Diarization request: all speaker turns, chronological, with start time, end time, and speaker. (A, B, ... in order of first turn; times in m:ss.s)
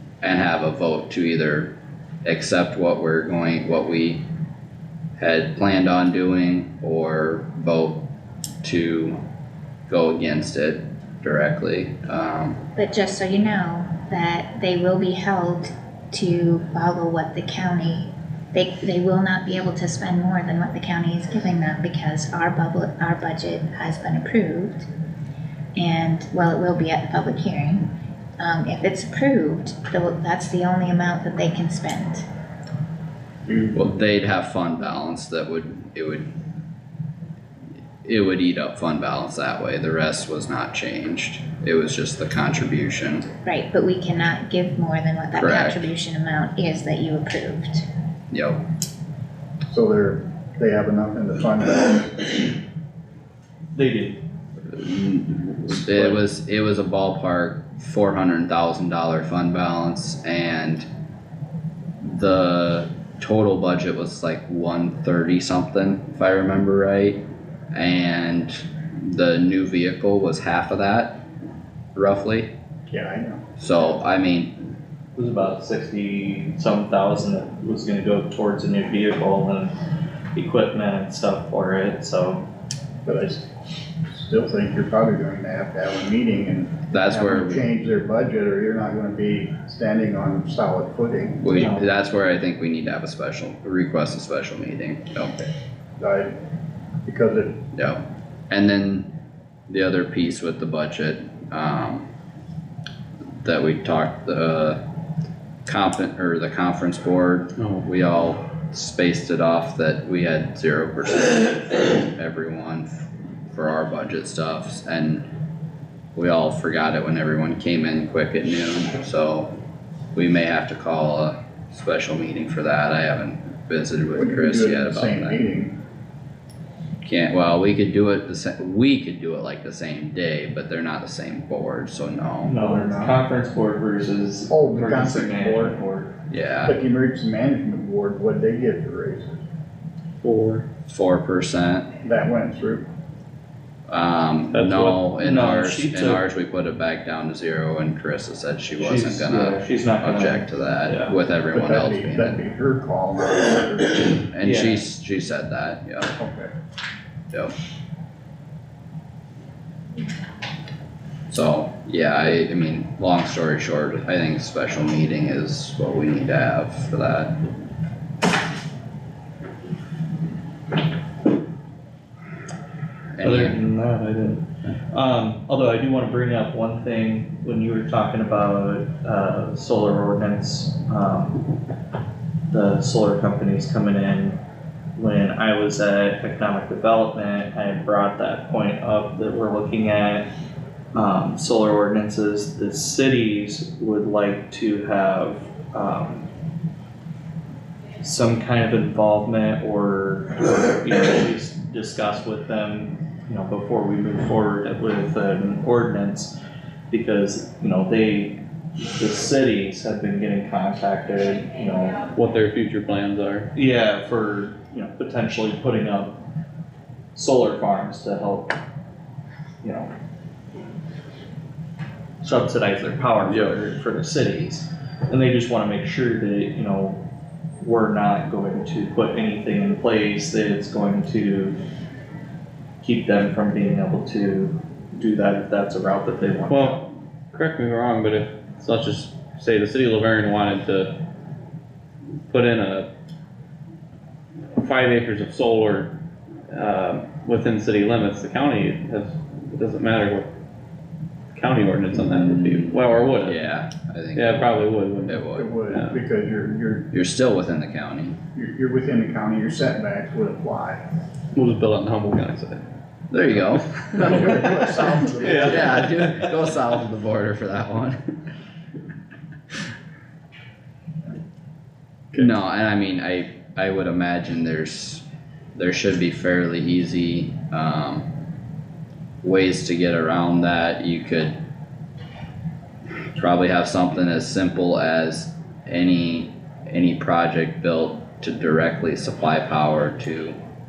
0:00.2-0:01.7 A
0:02.2-0:04.2 A
0:05.2-0:08.0 A
0:08.6-0:09.2 A
0:09.9-0:12.6 A
0:12.8-0:24.9 B
0:25.8-0:27.9 B
0:28.4-0:32.3 B
0:33.5-0:33.7 C
0:33.7-0:36.3 A
0:38.0-0:43.3 A
0:43.4-0:47.9 B
0:45.4-0:45.9 A
0:48.3-0:48.6 A
0:49.7-0:52.5 C
0:53.7-0:54.2 D
0:54.7-1:00.9 A
1:02.0-1:07.2 A
1:07.7-1:11.2 A
1:12.0-1:12.5 A
1:12.9-1:13.4 C
1:13.6-1:14.6 A
1:15.2-1:19.7 D
1:20.4-1:22.4 D
1:23.0-1:23.5 C
1:24.1-1:31.7 C
1:26.9-1:27.6 A
1:31.4-1:35.3 A
1:31.6-1:31.8 D
1:36.0-1:36.3 C
1:37.0-1:37.6 C
1:37.7-1:39.1 A
1:39.7-1:42.1 A
1:43.4-1:44.8 A
1:45.7-1:55.2 A
1:47.6-1:47.9 E
1:56.2-1:59.5 A
2:00.2-2:05.4 A
2:04.1-2:05.8 C
2:07.0-2:12.6 A
2:12.4-2:16.1 D
2:12.6-2:13.2 C
2:14.5-2:15.8 C
2:16.3-2:16.7 A
2:16.6-2:19.4 C
2:20.2-2:20.6 E
2:20.9-2:21.9 A
2:22.0-2:22.8 C
2:23.9-2:32.4 A
2:24.5-2:25.1 E
2:25.2-2:26.2 D
2:28.8-2:31.1 D
2:31.5-2:34.3 C
2:34.3-2:36.1 A
2:34.4-2:34.8 D
2:36.1-2:36.5 C
2:41.3-2:47.4 A
2:53.2-2:53.6 A
2:53.2-3:01.4 D
3:02.5-3:04.4 D
3:05.0-3:10.3 D
3:11.0-3:16.3 D
3:18.0-3:26.4 D
3:26.9-3:32.1 D
3:32.1-3:33.5 E
3:33.6-3:36.2 D
3:37.2-3:38.6 D
3:39.6-3:39.9 D
3:42.2-3:47.0 D
3:43.3-3:43.6 E
3:47.6-3:51.6 D
3:52.8-3:56.8 D
3:56.5-4:00.9 E
4:02.3-4:02.9 E
4:04.6-4:05.9 E
4:06.5-4:10.3 E
4:11.3-4:13.4 E
4:12.2-4:15.5 A
4:14.1-4:16.0 E
4:15.3-4:16.9 C
4:16.9-4:18.2 A
4:18.4-4:20.8 C
4:21.4-4:22.6 E
4:23.1-4:24.3 A
4:24.0-4:25.9 C
4:25.2-4:25.6 E
4:25.4-4:28.0 A
4:32.1-4:35.0 A
4:35.6-4:38.1 A
4:39.2-4:41.4 A
4:43.2-4:50.4 A